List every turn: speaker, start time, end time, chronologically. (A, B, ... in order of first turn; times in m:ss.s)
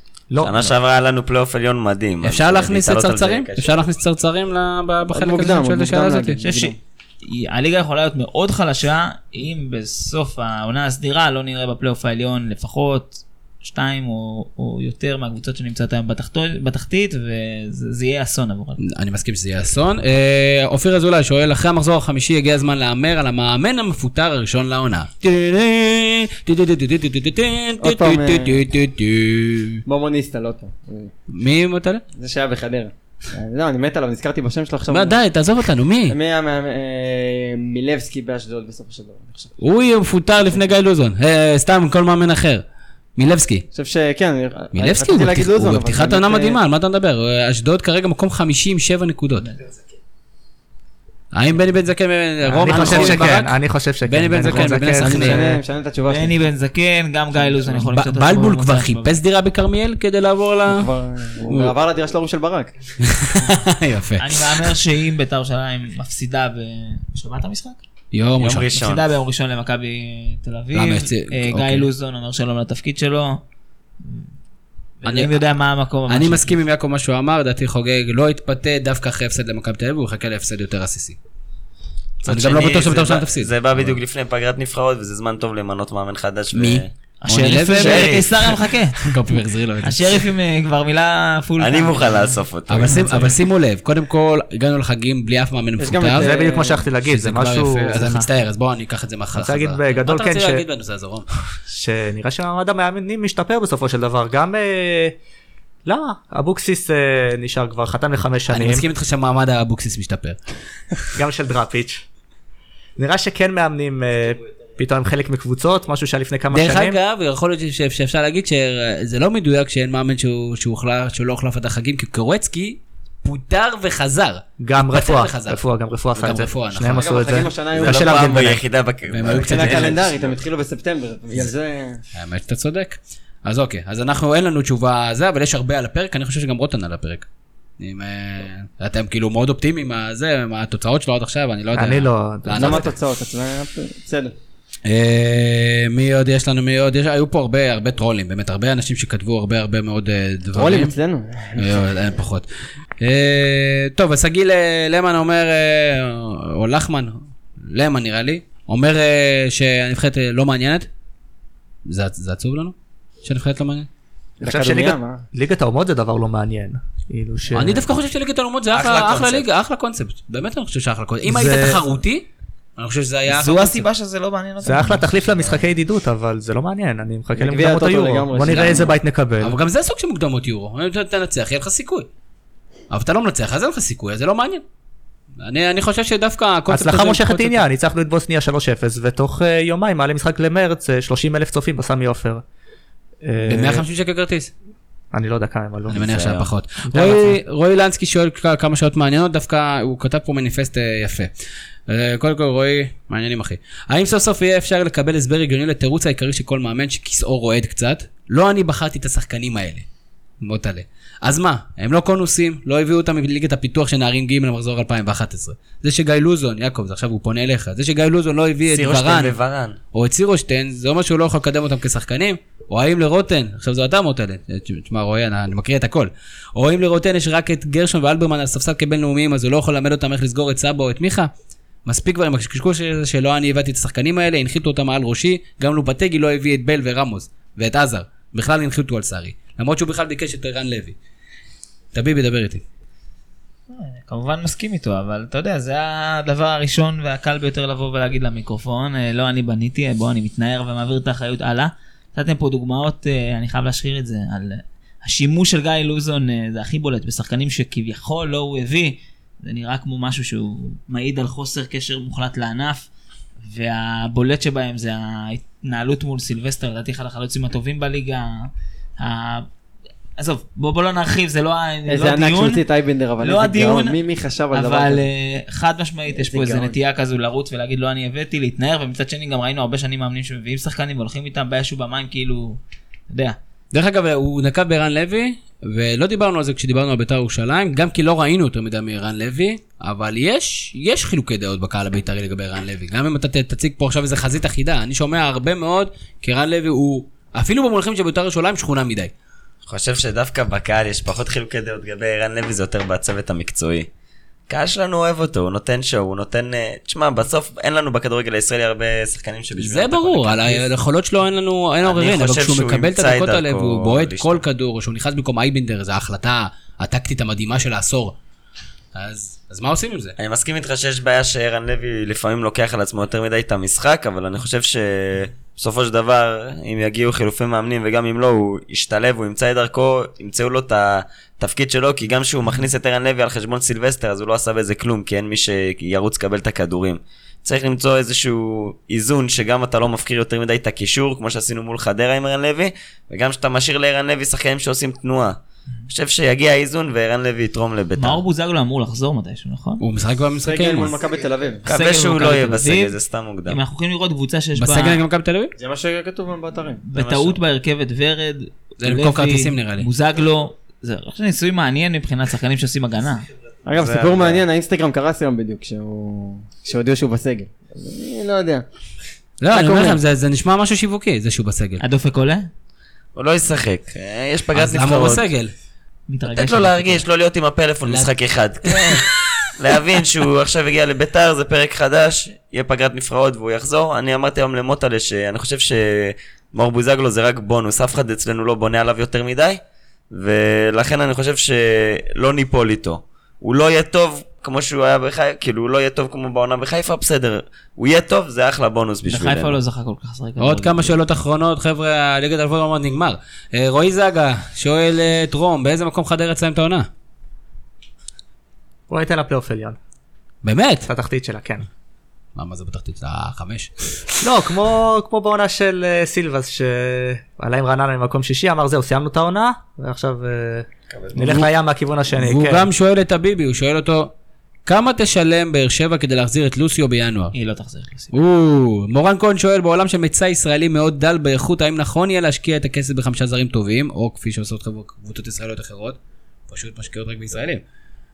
0:00.3-0:00.8 A
0:00.4-0:03.8 B
0:02.2-0:06.4 C
0:05.1-0:06.8 D
0:06.4-0:18.8 E
0:18.8-0:29.8 C
0:27.8-0:28.6 D
0:29.9-0:31.1 D
0:31.3-0:32.0 C
0:32.2-0:35.2 D
0:34.9-0:36.2 C
0:36.1-0:39.6 D
0:39.6-0:43.7 C
0:43.7-0:46.6 D
0:44.7-0:49.5 C
0:51.3-0:55.6 C
0:52.4-0:55.5 A
0:55.0-0:56.4 D
0:56.1-0:59.2 E
0:57.8-1:00.9 C
1:00.7-1:02.7 D
1:01.5-1:01.7 C
1:03.0-1:04.7 C
1:04.2-1:07.8 E
1:08.1-1:08.7 C
1:08.4-1:09.1 B
1:08.7-1:13.4 E
1:10.8-1:11.9 C
1:14.0-1:14.3 E
1:15.0-1:16.6 E
1:15.0-1:15.3 C
1:16.1-1:21.2 C
1:22.2-1:26.9 B
1:22.3-1:24.0 C
1:26.5-1:28.2 C
1:27.2-1:29.2 E
1:27.8-1:28.6 B
1:29.0-1:30.2 C
1:29.8-1:32.4 E
1:31.6-1:33.4 B
1:32.7-1:36.3 C
1:35.8-1:36.9 D
1:36.2-1:38.3 A
1:37.0-1:41.3 C
1:39.3-1:40.6 A
1:41.5-1:45.2 A
1:45.8-1:48.8 A
1:48.5-1:50.4 C
1:51.1-1:52.0 A
1:53.0-1:57.0 A
1:56.5-2:05.6 C
2:04.6-2:08.6 A
2:06.2-2:07.1 C
2:06.9-2:08.6 D
2:07.7-2:10.4 B
2:09.1-2:10.0 C
2:09.2-2:12.0 D
2:12.2-2:17.3 C
2:17.8-2:22.9 C
2:21.7-2:22.9 A
2:22.6-2:24.3 D
2:24.9-2:30.9 C
2:30.5-2:31.9 D
2:31.6-2:32.5 C
2:33.0-2:40.9 C
2:41.9-2:43.9 C
2:44.4-2:45.2 D
2:44.4-2:47.9 A
2:47.5-2:53.9 C
2:48.7-2:49.5 B
2:51.3-2:51.8 A
2:53.3-2:55.0 E
2:54.6-2:59.6 A
2:55.2-2:55.6 C
2:57.4-2:58.9 D
2:58.5-2:58.8 C
2:59.4-3:02.1 C
3:02.9-3:04.6 C
3:05.4-3:07.7 C
3:06.7-3:12.4 A
3:13.2-3:13.9 A
3:13.4-3:14.5 C
3:15.1-3:16.0 A
3:15.9-3:21.3 C
3:15.9-3:17.0 B
3:17.0-3:17.2 A
3:21.9-3:29.9 C
3:30.4-3:39.4 C
3:38.7-3:39.8 B
3:39.9-3:51.3 C
3:51.9-4:01.0 C
4:01.9-4:02.6 C
4:03.7-4:22.9 E
4:23.4-4:29.5 E
4:30.2-4:32.6 E
4:31.9-4:35.0 D
4:33.2-4:34.0 E
4:34.5-4:43.4 E
4:36.1-4:36.8 D
4:43.7-4:59.1 C
4:59.7-5:03.9 B
5:04.5-5:10.7 B
5:09.6-5:18.2 C
5:11.8-5:14.4 B
5:19.0-5:20.2 C
5:20.2-5:45.4 B
5:45.9-5:48.2 B
5:48.0-5:49.8 E
5:49.8-5:51.0 C
5:50.4-5:51.6 D
5:51.7-5:53.0 E
5:51.7-5:53.6 B
5:53.5-5:55.0 E
5:54.6-5:55.5 C
5:55.6-5:56.8 D
5:56.9-6:03.3 E
5:56.9-5:57.4 B
5:58.8-5:59.9 C
6:03.7-6:08.6 D
6:03.8-6:04.4 B
6:09.4-6:11.8 C
6:09.5-6:10.0 D
6:11.8-6:12.5 E
6:13.2-6:15.2 B
6:14.5-6:15.5 C
6:16.1-6:17.0 E
6:16.3-6:39.6 B
6:17.9-6:18.1 C
6:18.7-6:19.0 C
6:39.1-6:41.0 E
6:40.4-6:46.9 C
6:48.9-6:49.8 A
6:50.4-6:50.9 C
6:50.9-6:51.7 A
6:52.4-6:54.2 C
6:54.2-7:02.7 A
7:00.9-7:01.4 B
7:01.2-7:01.5 C
7:02.2-7:04.1 C
7:04.7-7:07.3 C
7:07.3-7:08.1 E
7:08.1-7:16.0 C
7:16.5-7:17.6 C